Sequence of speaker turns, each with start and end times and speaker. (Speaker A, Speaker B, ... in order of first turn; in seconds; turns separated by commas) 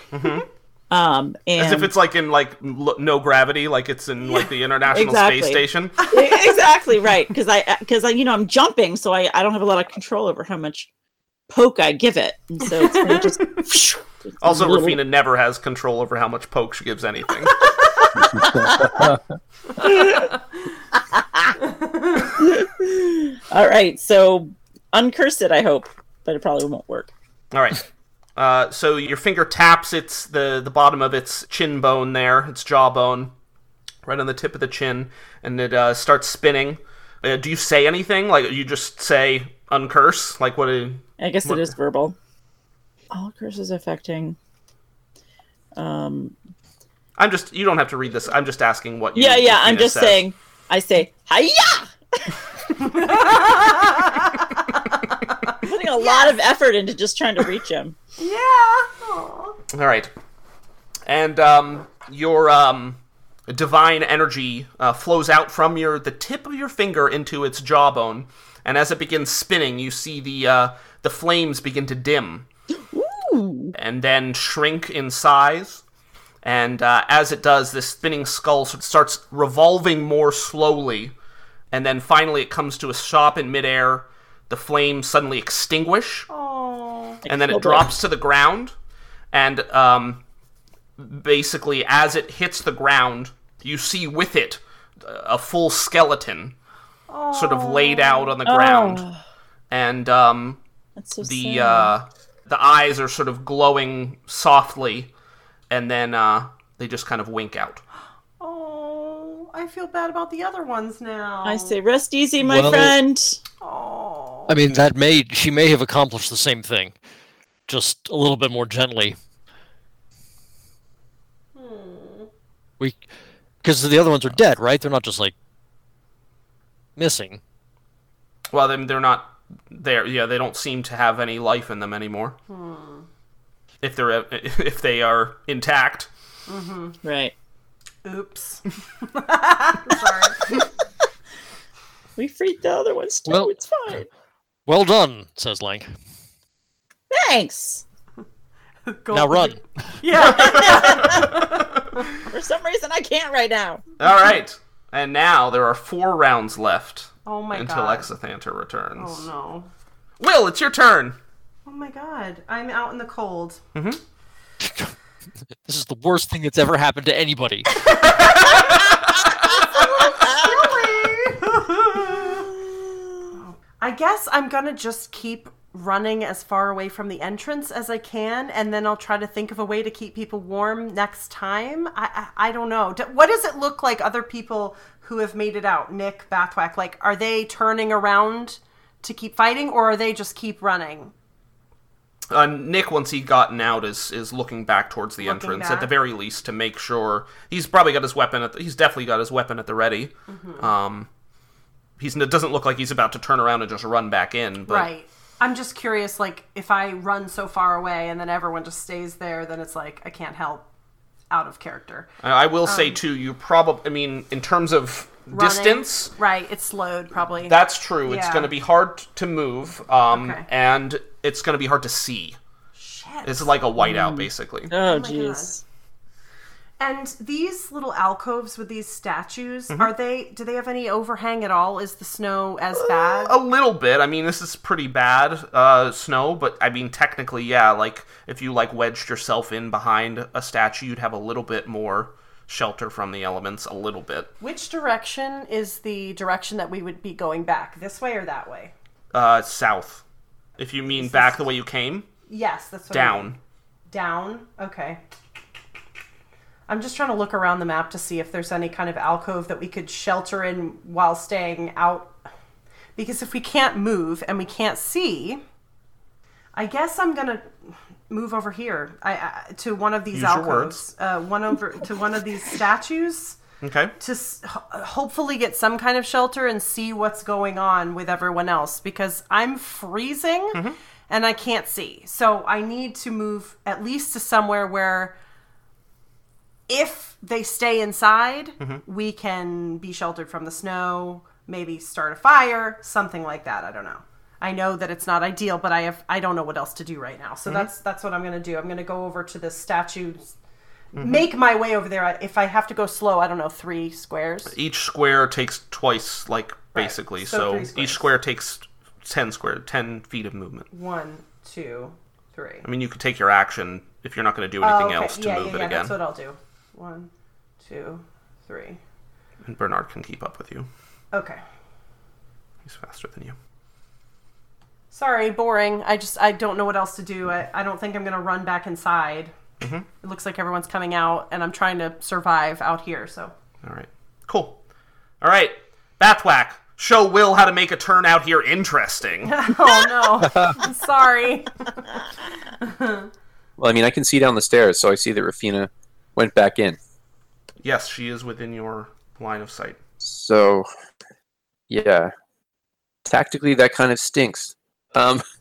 Speaker A: 0.1-0.4, Speaker B: 0.9-1.9, Speaker A: 1.6-6.0, Speaker B: 4.9-10.9, Speaker C: 6.1-6.5, Speaker B: 11.5-15.0, Speaker C: 12.8-13.6, Speaker A: 14.4-17.7, Speaker C: 17.6-18.4, Speaker D: 18.3-19.2, Speaker B: 18.4-19.1, Speaker B: 19.8-20.4, Speaker B: 20.9-21.6, Speaker C: 21.6-22.4, Speaker B: 22.2-27.1, Speaker A: 27.5-27.8, Speaker A: 28.4-33.3, Speaker A: 34.0-41.7, Speaker B: 41.2-42.1, Speaker B: 43.1-44.4, Speaker B: 45.8-46.3, Speaker A: 47.2-50.2, Speaker B: 49.1-52.3, Speaker C: 52.8-56.3, Speaker B: 55.6-58.0, Speaker C: 58.2-59.6, Speaker A: 59.7-60.1, Speaker A: 61.0-72.5, Speaker B: 72.9-73.7, Speaker A: 73.7-75.8, Speaker A: 76.4-81.1, Speaker A: 81.7-86.3, Speaker C: 86.3-87.2, Speaker B: 87.2-87.9, Speaker A: 87.3-88.7, Speaker A: 89.3-90.2, Speaker A: 91.0-96.5, Speaker C: 97.1-98.4, Speaker A: 97.3-99.0, Speaker B: 98.5-99.2, Speaker A: 99.7-100.6, Speaker B: 101.0-101.9, Speaker A: 101.2-105.1, Speaker A: 105.7-107.8, Speaker C: 108.4-111.8, Speaker B: 111.4-113.4, Speaker E: 112.4-113.0, Speaker C: 113.6-114.5, Speaker E: 114.5-117.0, Speaker E: 117.7-119.2, Speaker C: 121.5-122.3, Speaker E: 123.6-125.3, Speaker E: 127.0-127.4, Speaker A: 128.5-132.4, Speaker C: 132.5-133.1, Speaker A: 133.8-136.1, Speaker C: 136.5-137.0, Speaker B: 137.0-137.3, Speaker C: 138.0-140.5, Speaker B: 142.2-144.1, Speaker E: 143.3-143.5, Speaker E: 144.7-145.9, Speaker B: 147.1-147.8, Speaker C: 148.8-152.2, Speaker E: 149.1-149.9, Speaker B: 150.4-151.3, Speaker A: 150.4-151.8, Speaker B: 152.2-153.8, Speaker A: 154.0-159.2, Speaker C: 157.2-158.1, Speaker C: 159.0-159.7, Speaker A: 160.2-161.2, Speaker C: 161.7-163.6, Speaker A: 163.7-164.0, Speaker E: 164.6-164.9, Speaker E: 165.6-167.9, Speaker C: 167.8-168.8, Speaker C: 169.5-172.5, Speaker B: 170.1-170.8, Speaker C: 173.4-191.1, Speaker A: 192.3-201.1, Speaker C: 195.2-195.9, Speaker C: 200.3-200.7, Speaker A: 202.0-204.9, Speaker C: 204.7-210.7, Speaker C: 211.3-212.1, Speaker A: 212.2-216.1, Speaker C: 212.6-213.0, Speaker C: 215.3-218.5, Speaker A: 217.4-222.4, Speaker C: 220.1-220.4, Speaker C: 222.8-223.5, Speaker A: 223.2-224.7, Speaker B: 223.8-225.6, Speaker C: 224.8-225.6, Speaker C: 226.8-233.4, Speaker A: 233.0-244.3, Speaker C: 244.4-248.7, Speaker A: 249.1-250.0, Speaker A: 250.6-252.1, Speaker C: 250.9-251.5, Speaker C: 252.3-253.3, Speaker A: 252.9-253.4, Speaker C: 253.9-255.0, Speaker C: 256.7-262.1, Speaker C: 262.9-265.4, Speaker C: 266.5-273.4, Speaker A: 270.1-270.8, Speaker A: 273.6-273.9, Speaker C: 274.0-285.1, Speaker C: 286.7-300.3, Speaker A: 300.9-301.2, Speaker C: 301.0-304.5, Speaker A: 304.5-310.7, Speaker C: 306.7-308.0, Speaker C: 310.7-312.6, Speaker A: 312.6-315.9, Speaker C: 314.6-317.1, Speaker C: 317.6-318.8, Speaker A: 319.4-320.7, Speaker C: 321.1-321.4, Speaker A: 322.6-323.4, Speaker C: 324.9-329.3, Speaker A: 329.6-329.9, Speaker C: 330.0-333.3, Speaker A: 333.6-334.6, Speaker A: 335.2-339.5, Speaker C: 339.2-341.9, Speaker D: 340.2-340.6, Speaker C: 342.6-343.1, Speaker D: 343.6-346.8, Speaker A: 347.6-349.8, Speaker D: 350.0-350.7, Speaker D: 351.7-352.1, Speaker D: 353.1-355.2